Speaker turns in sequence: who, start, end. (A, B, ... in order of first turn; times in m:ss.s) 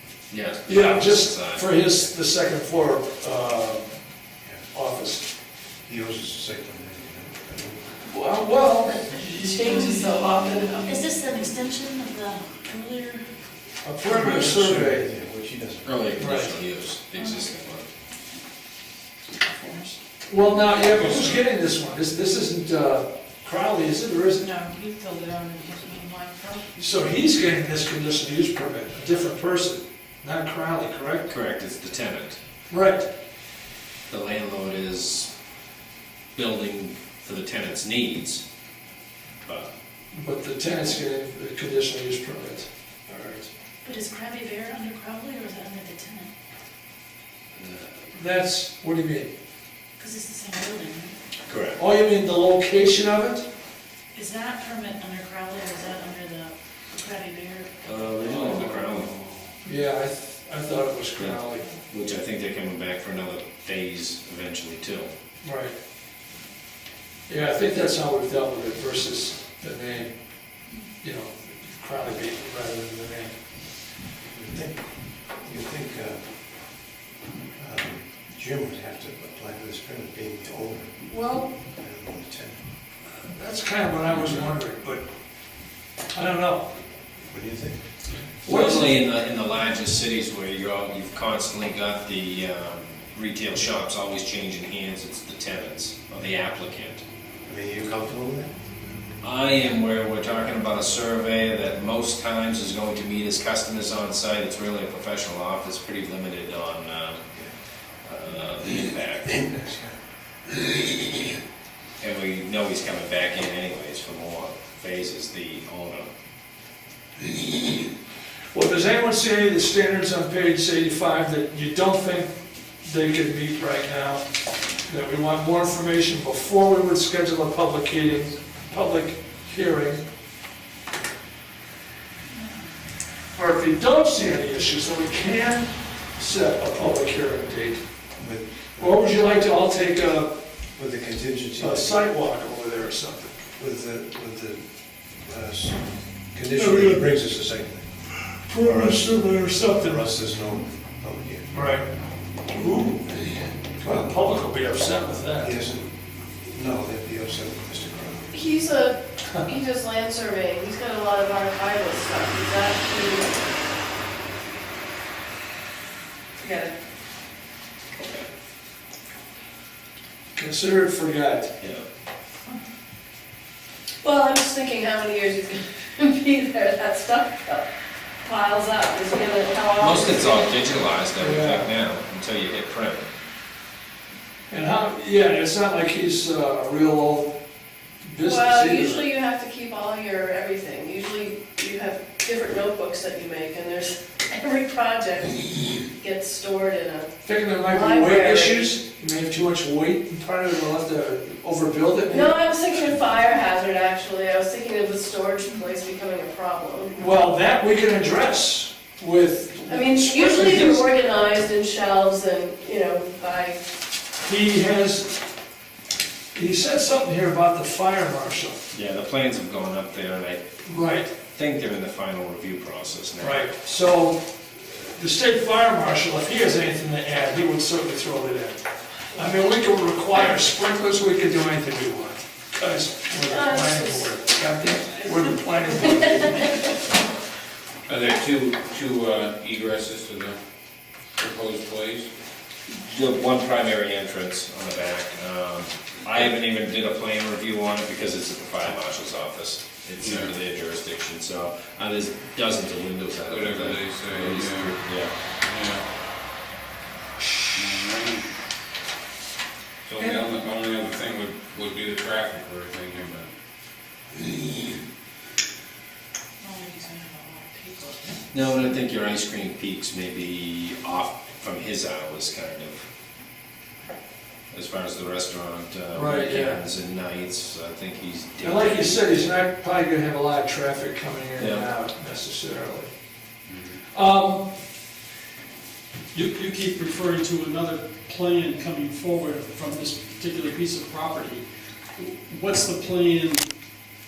0:00.3-0:01.8 A
0:00.6-0:03.9 B
0:04.7-0:05.3 B
0:05.8-0:07.9 C
0:08.1-0:10.1 B
0:09.4-0:11.0 D
0:10.8-0:13.3 E
0:13.8-0:15.1 B
0:14.2-0:14.8 A
0:14.2-0:16.0 C
0:15.8-0:17.9 A
0:16.2-0:16.5 B
0:17.2-0:17.5 E
0:19.4-0:20.0 E
0:20.3-0:24.5 B
0:20.9-0:21.3 A
0:24.4-0:26.6 E
0:26.8-0:31.3 B
0:31.3-0:32.4 A
0:32.7-0:33.1 B
0:34.1-0:35.3 A
0:36.3-0:38.4 A
0:39.4-0:39.7 A
0:40.1-0:43.5 B
0:43.8-0:46.3 E
0:48.1-0:49.3 B
0:50.0-0:51.2 E
0:51.4-0:51.8 A
0:51.8-0:53.4 B
0:54.1-0:58.5 E
0:57.8-0:59.2 A
0:58.3-0:58.7 B
0:59.6-1:01.6 B
1:01.2-1:05.1 A
1:05.4-1:05.8 B
1:07.3-1:13.8 B
1:14.3-1:16.6 C
1:17.6-1:22.6 C
1:21.1-1:21.5 B
1:23.2-1:26.7 B
1:27.2-1:28.0 C
1:28.4-1:37.0 A
1:28.4-1:28.9 B
1:37.4-1:38.7 C
1:39.2-1:47.2 A
1:47.8-1:49.4 A
1:49.2-1:50.0 C
1:52.0-1:56.1 A
1:58.5-2:02.3 B
2:02.8-2:04.2 B
2:04.8-2:10.0 B
2:12.3-2:12.7 E
2:13.3-2:17.8 B
2:18.2-2:19.0 C
2:18.8-2:20.3 B
2:20.7-2:22.0 C
2:21.6-2:23.4 B
2:23.6-2:28.0 C
2:26.5-2:27.2 B
2:28.4-2:30.2 B
2:28.6-2:31.5 C
2:31.5-2:31.8 B
2:32.5-2:33.1 B
2:33.8-2:35.6 B
2:33.8-2:34.2 C
2:35.4-2:38.3 C
2:38.3-2:43.3 D
2:46.4-2:46.7 D
2:48.0-2:48.3 A
2:50.4-2:51.5 B
2:51.6-2:51.8 A
2:54.0-2:57.7 D
2:58.2-3:00.5 D
2:59.8-3:03.1 A
3:01.2-3:01.7 B
3:04.5-3:07.4 B
3:08.0-3:09.1 B
3:08.2-3:18.8 D
3:17.2-3:22.3 B
3:22.1-3:27.0 D
3:26.9-3:30.9 B
3:29.7-3:33.6 D
3:34.2-3:35.2 B
3:36.3-3:38.6 B
3:38.7-3:40.4 A
3:40.7-3:41.1 B
3:41.3-3:43.5 A
3:43.2-3:48.6 B
3:49.1-3:56.5 B
3:53.2-3:54.2 D
3:55.9-3:56.5 D
3:57.9-4:00.4 F
4:01.2-4:02.1 F
4:02.7-4:15.1 A
4:10.0-4:10.3 F
4:13.2-4:14.7 F
4:15.4-4:15.8 F
4:17.5-4:18.3 F
4:19.8-4:23.3 F
4:20.0-4:20.3 B
4:26.4-4:28.2 E
4:28.3-4:32.8 A
4:34.5-4:39.3 A
4:35.9-4:36.6 B
4:38.4-4:42.9 B
4:41.4-4:41.6 A
4:43.5-4:43.7 F
4:43.8-4:44.5 B
4:46.1-4:51.4 G
4:52.0-4:53.5 G